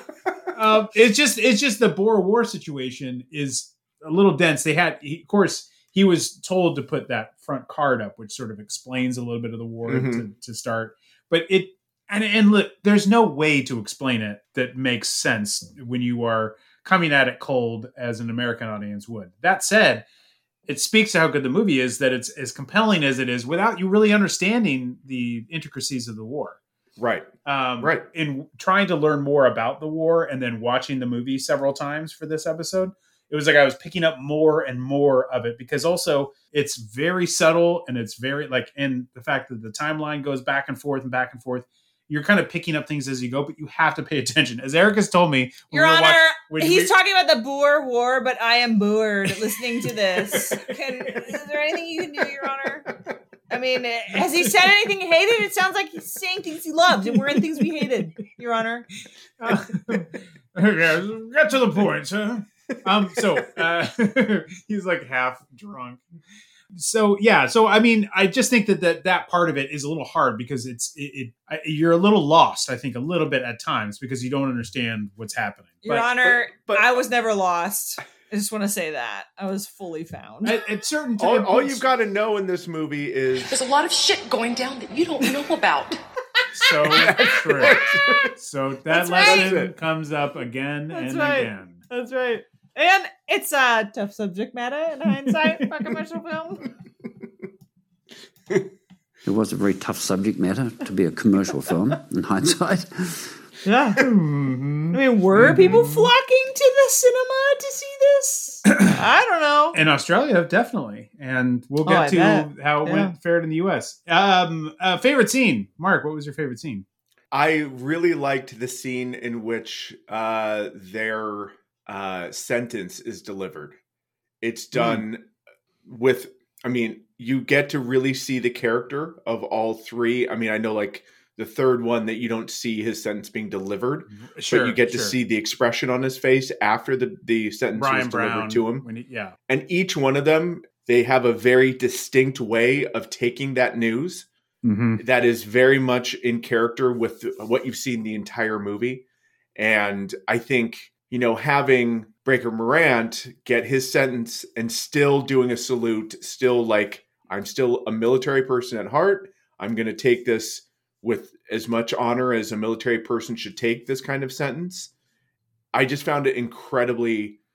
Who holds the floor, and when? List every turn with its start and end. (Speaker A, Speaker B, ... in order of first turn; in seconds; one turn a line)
Speaker A: 0.5-20.0
Speaker B: 9.9-10.2
Speaker A: 20.7-26.6
Speaker B: 27.0-28.1
Speaker A: 27.4-46.9
Speaker C: 45.7-52.9
Speaker A: 50.2-51.2
Speaker C: 53.5-58.9
Speaker A: 57.1-58.0
Speaker A: 59.4-66.0
Speaker A: 66.7-76.1
Speaker C: 75.8-80.6
Speaker B: 76.2-77.0
Speaker A: 80.4-81.8
Speaker B: 81.2-83.6
Speaker D: 83.5-86.0
Speaker A: 86.5-87.8
Speaker B: 86.9-88.3
Speaker C: 87.6-88.3
Speaker A: 88.3-91.8
Speaker C: 88.9-89.5
Speaker B: 89.2-89.7
Speaker C: 90.9-96.6
Speaker E: 99.3-103.2
Speaker C: 103.6-104.0
Speaker A: 104.0-106.1
Speaker C: 104.9-109.8
Speaker A: 109.7-116.8
Speaker C: 111.9-113.1
Speaker B: 117.3-123.8
Speaker B: 124.4-125.2
Speaker A: 124.7-125.0
Speaker B: 125.9-138.9
Speaker A: 134.1-135.2
Speaker A: 137.7-139.3
Speaker B: 139.5-144.3
Speaker A: 144.6-145.0
Speaker B: 145.0-149.0
Speaker B: 149.6-164.9
Speaker B: 165.7-167.4